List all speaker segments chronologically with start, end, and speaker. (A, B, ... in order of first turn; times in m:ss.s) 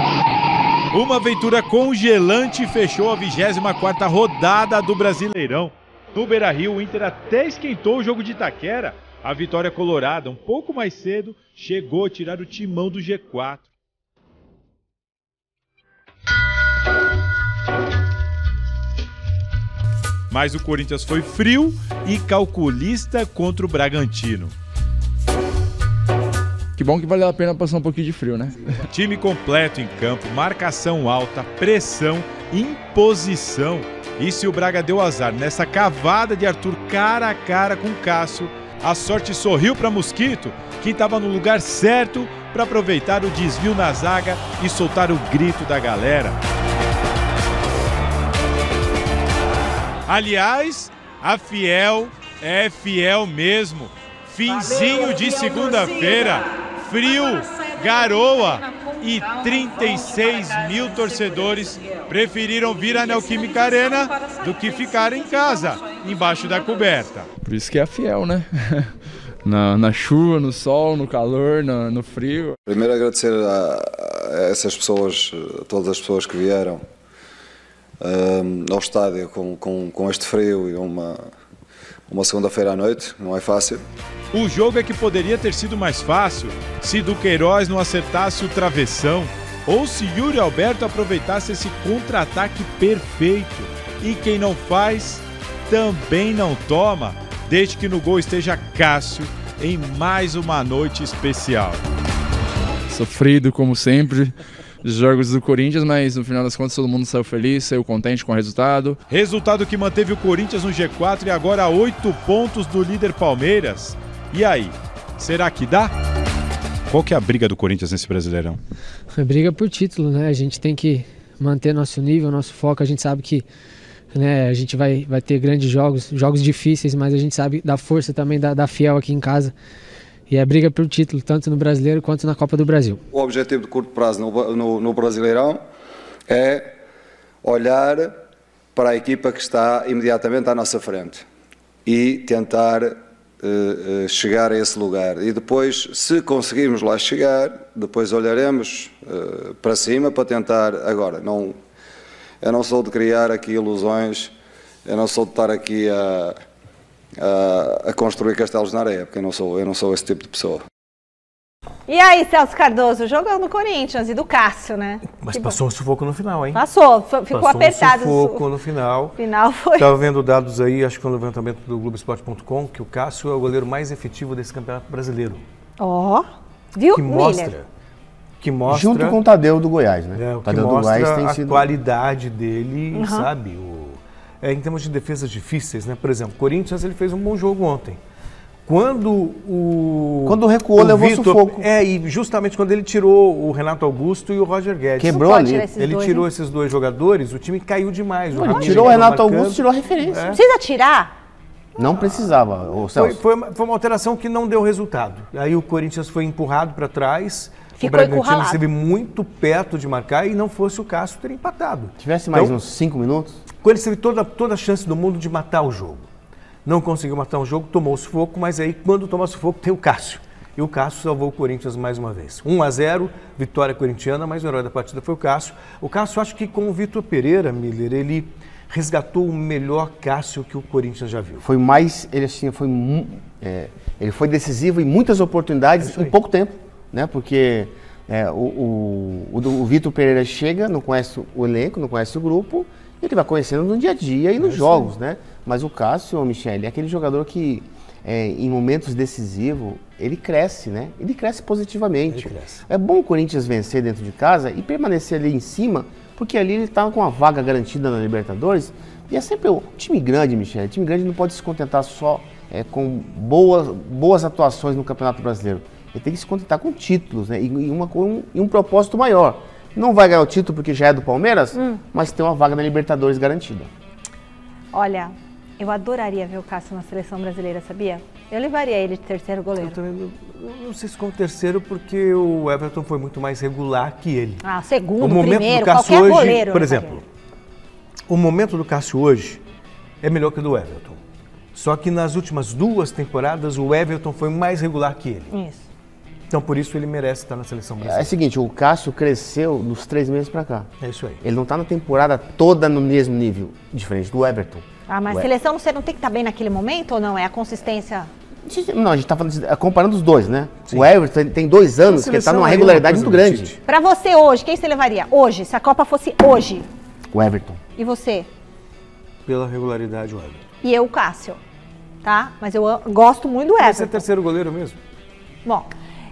0:00.9-0:13.7 A
0:20.3-0:24.5 A
0:26.8-0:28.8 B
0:28.9-0:46.4 A
0:50.1-1:07.3 A
1:07.4-1:08.9 B
1:09.4-1:12.5 B
1:12.7-1:16.8 C
1:18.0-1:21.2 C
1:22.1-1:23.8 C
1:24.3-1:41.8 A
1:42.9-1:49.0 B
1:49.1-1:55.9 A
1:56.9-1:58.6 A
1:59.2-2:03.5 D
2:04.1-2:09.6 D
2:10.3-2:13.0 D
2:13.1-2:15.6 C
2:16.3-2:16.7 C
2:17.4-2:18.1 C
2:18.8-2:21.2 C
2:21.9-2:31.6 C
2:32.4-2:34.4 C
2:34.9-2:36.4 C
2:37.2-2:40.6 C
2:41.9-2:45.6 E
2:45.2-2:46.6 F
2:46.5-2:48.4 E
2:47.3-2:49.2 F
2:49.2-2:49.9 E
2:49.8-2:55.4 F
2:55.8-2:57.6 E
2:56.9-2:57.7 F
2:58.4-2:59.2 F
2:58.7-3:01.7 G
3:00.2-3:08.0 F
3:03.0-3:03.3 E
3:08.6-3:15.2 F
3:10.3-3:11.7 G
3:15.0-3:15.7 G
3:15.1-3:16.3 E
3:15.8-3:20.4 F
3:18.3-3:20.3 G
3:20.3-3:21.1 E
3:21.8-3:23.2 G
3:23.0-3:32.6 F
3:27.8-3:28.6 E
3:32.0-3:33.4 G
3:33.6-3:36.1 F
3:36.6-3:51.4 F
3:51.4-4:33.7 G
3:55.8-3:56.1 F
4:04.4-4:04.9 F
4:12.1-4:12.6 F
4:31.6-4:31.8 E
4:34.7-4:39.8 E
4:39.6-4:44.4 F
4:44.4-4:47.0 E
4:45.0-4:47.0 F
4:48.1-4:49.4 F
4:50.0-4:51.0 F
4:51.5-4:55.3 F
4:55.3-4:55.7 E
4:56.3-4:58.1 F
4:57.8-5:00.7 G
5:00.8-5:01.2 F
5:01.2-5:05.3 G
5:04.9-5:08.1 E
5:08.5-5:13.5 G
5:11.9-5:13.6 F
5:13.7-5:16.7 E
5:17.1-5:17.6 G
5:17.8-5:18.3 E
5:19.3-5:20.4 F
5:20.6-5:21.4 E
5:22.0-5:24.0 E
5:23.6-5:24.8 F
5:25.4-5:25.7 E